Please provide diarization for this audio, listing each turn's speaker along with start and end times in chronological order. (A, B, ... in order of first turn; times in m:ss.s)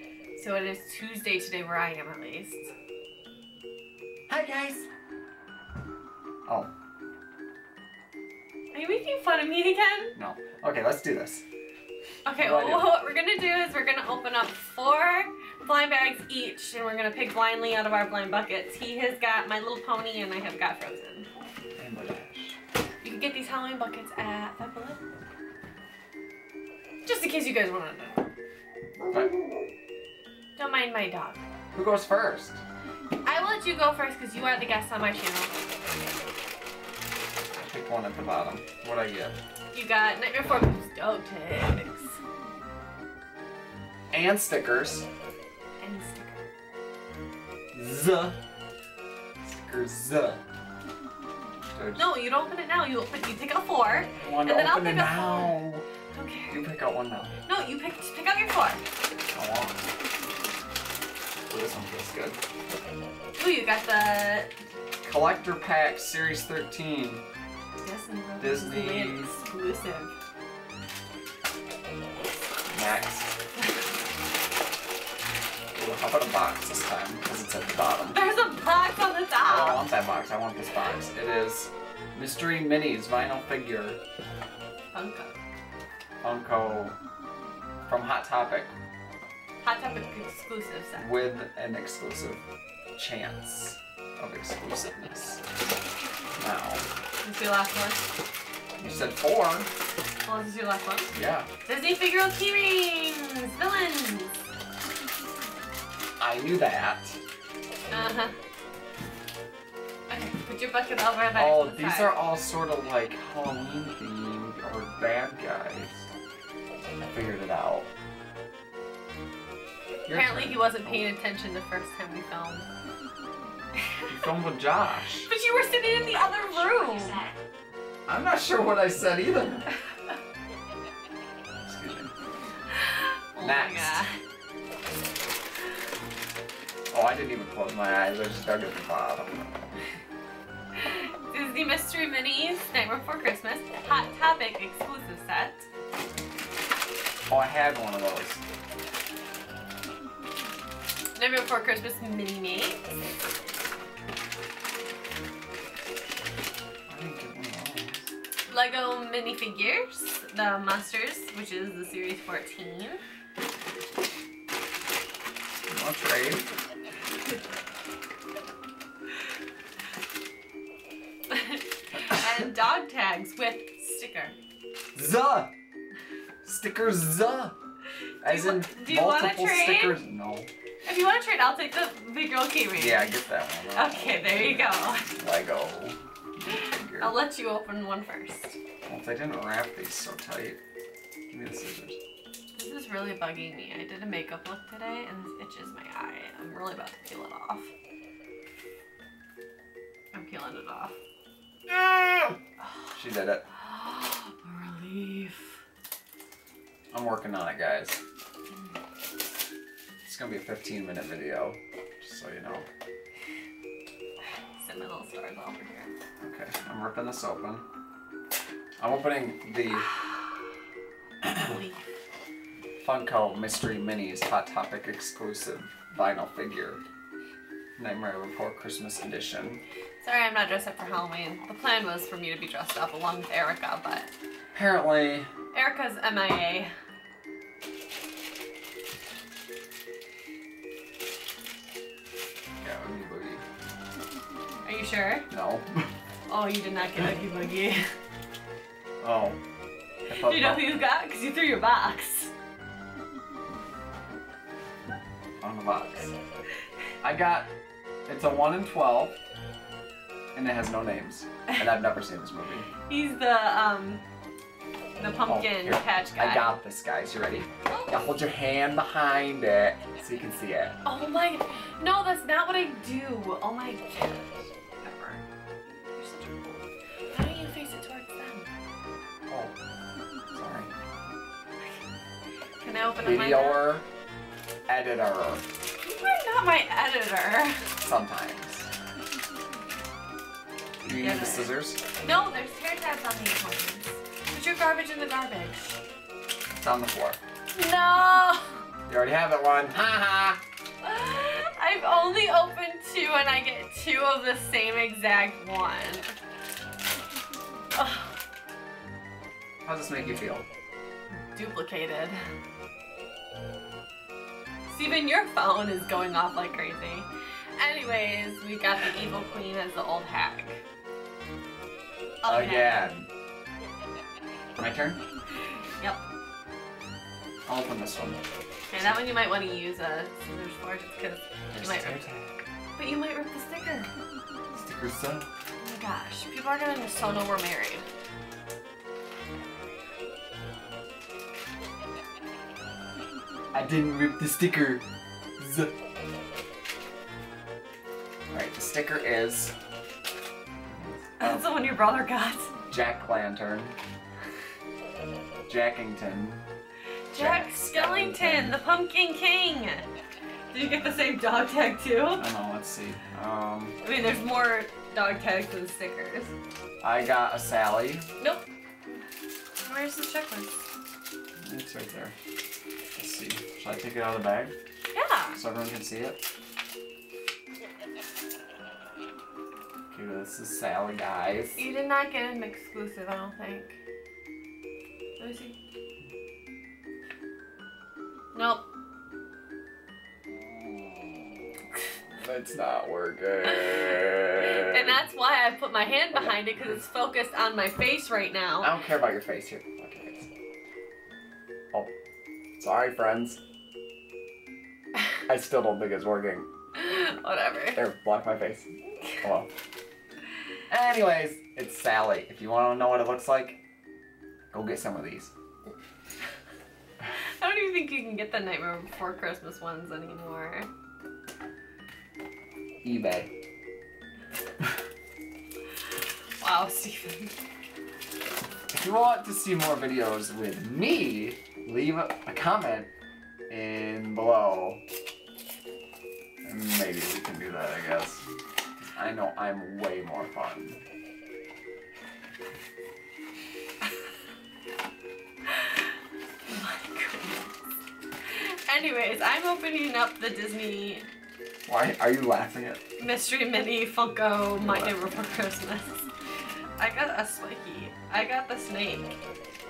0:00.4-0:02.7 A
0:04.3-0:04.9 B
0:06.5-0:06.7 B
0:08.7-0:10.2 A
0:10.2-0:11.4 B
0:12.2-0:21.3 A
0:12.4-0:12.9 B
0:21.8-0:22.6 B
0:23.0-0:25.0 A
0:27.0-0:28.3 A
0:29.1-0:29.4 B
0:30.6-0:31.4 A
0:31.7-0:32.6 B
0:33.2-0:35.5 A
0:37.5-0:39.4 B
0:39.7-0:42.2 A
0:44.1-0:45.1 B
0:45.8-0:46.5 A
0:47.7-0:48.4 B
0:49.4-0:50.4 B
0:51.8-0:52.1 B
0:52.0-0:56.6 A
0:54.2-0:55.9 B
0:56.5-0:57.4 B
0:57.5-0:58.8 A
0:59.3-0:59.8 B
1:01.5-1:02.4 B
1:03.4-1:04.6 A
1:05.0-1:07.2 B
1:07.8-1:10.2 A
1:08.4-1:09.4 B
1:12.7-1:13.3 B
1:15.7-1:18.2 B
1:18.1-1:19.8 A
1:19.5-1:24.0 B
1:24.9-1:25.4 A
1:26.2-1:27.0 B
1:27.9-1:28.7 B
1:29.6-1:31.1 A
1:31.0-1:32.4 B
1:33.0-1:35.4 B
1:36.4-1:36.9 B
1:37.2-1:38.1 A
1:38.8-1:39.7 B
1:40.3-1:41.1 A
1:41.1-1:41.5 B
1:41.7-1:44.5 A
1:46.2-1:47.2 B
1:47.9-1:48.4 A
1:50.1-1:52.1 A
1:51.4-1:56.1 B
1:57.0-1:57.9 B
2:00.1-2:02.7 A
2:00.1-2:01.1 B
2:03.8-2:04.1 A
2:04.1-2:05.3 B
2:05.3-2:07.2 A
2:08.1-2:09.7 B
2:11.6-2:12.1 B
2:12.7-2:14.2 A
2:13.4-2:14.1 B
2:16.9-2:19.8 B
2:20.8-2:25.7 A
2:27.3-2:28.4 B
2:31.2-2:33.0 A
2:36.9-2:38.1 B
2:38.5-2:43.0 A
2:45.7-2:46.5 B
2:51.3-2:54.4 A
2:55.0-2:55.5 B
2:56.4-2:57.6 B
2:58.2-3:00.0 A
2:58.2-3:00.5 B
3:00.8-3:03.1 A
3:02.8-3:07.2 B
3:03.7-3:05.1 A
3:06.5-3:08.6 A
3:08.9-3:10.6 B
3:11.3-3:12.0 B
3:12.6-3:17.7 A
3:20.1-3:21.0 A
3:21.7-3:22.4 B
3:22.6-3:22.9 A
3:22.9-3:23.4 B
3:23.5-3:25.5 A
3:26.9-3:28.0 B
3:30.0-3:32.7 B
3:34.6-3:35.9 A
3:36.2-3:37.7 B
3:38.8-3:39.9 B
3:41.2-3:41.6 B
3:41.3-3:41.8 A
3:42.8-3:46.8 B
3:47.8-3:49.6 B
3:50.0-3:54.1 A
3:54.5-3:55.3 B
3:55.5-3:56.7 A
4:02.6-4:03.4 B
4:04.6-4:05.3 A
4:05.3-4:05.9 B
4:06.3-4:07.9 A
4:09.0-4:09.4 B
4:10.1-4:10.8 B
4:10.1-4:12.3 A
4:15.4-4:16.1 B
4:17.0-4:17.5 B
4:18.1-4:19.2 B
4:20.4-4:22.7 B
4:22.9-4:24.0 A
4:25.0-4:26.6 A
4:25.3-4:30.8 B
4:27.7-4:28.0 A
4:30.8-4:38.5 A
4:39.3-4:39.6 B
4:40.3-4:40.7 B
4:42.6-4:43.6 A
4:43.0-4:43.9 B
4:44.7-4:45.4 B
4:45.8-4:47.7 A
4:47.8-4:48.7 B
4:50.8-4:51.8 B
4:50.9-4:55.8 A
4:56.5-4:57.2 B
4:57.5-4:58.6 A
4:58.9-5:00.4 B
5:00.8-5:06.2 A
5:07.8-5:08.2 A
5:09.6-5:10.4 B
5:11.3-5:12.2 A
5:14.7-5:17.1 A
5:17.6-5:20.6 A
5:22.2-5:22.9 A
5:22.3-5:23.1 B
5:24.6-5:25.0 B
5:27.5-5:28.2 B
5:28.7-5:32.1 A
5:31.5-5:32.4 B
5:32.8-5:33.9 A
5:34.5-5:35.3 B
5:35.6-5:37.8 A
5:43.5-5:44.8 B
5:45.4-5:45.7 B
5:48.3-5:49.6 B
5:50.6-5:51.5 B
5:51.2-5:52.5 A
5:52.7-5:53.8 B
5:55.5-5:56.4 B
5:57.1-5:59.9 A
5:57.2-5:58.6 B
6:00.5-6:02.2 A
6:02.1-6:03.8 B
6:03.8-6:06.3 A
6:06.8-6:08.1 B
6:09.6-6:10.6 A
6:11.4-6:12.2 B
6:13.0-6:14.5 B
6:14.9-6:15.4 A
6:15.4-6:16.2 B
6:19.9-6:21.6 B
6:21.6-6:23.8 A
6:25.2-6:25.6 A
6:28.3-6:28.6 A
6:30.3-6:31.5 B
6:32.1-6:35.0 B
6:33.6-6:33.8 A
6:34.4-6:38.7 A
6:36.1-6:36.8 B
6:38.6-6:40.3 B
6:42.6-6:43.4 B
6:45.3-6:46.5 B
6:46.8-6:47.8 A
6:47.8-6:48.7 B
6:49.2-6:49.5 B
6:50.7-6:53.6 B
6:54.5-6:55.3 B
6:57.4-7:00.7 A
7:02.8-7:03.3 B
7:06.4-7:07.4 A
7:08.7-7:12.9 B
7:13.5-7:14.8 B
7:16.4-7:18.3 B
7:18.8-7:20.8 B
7:25.5-7:27.6 A
7:28.3-7:31.1 A
7:31.7-7:32.8 B
7:33.0-7:36.1 A
7:34.6-7:35.5 B
7:36.8-7:39.2 A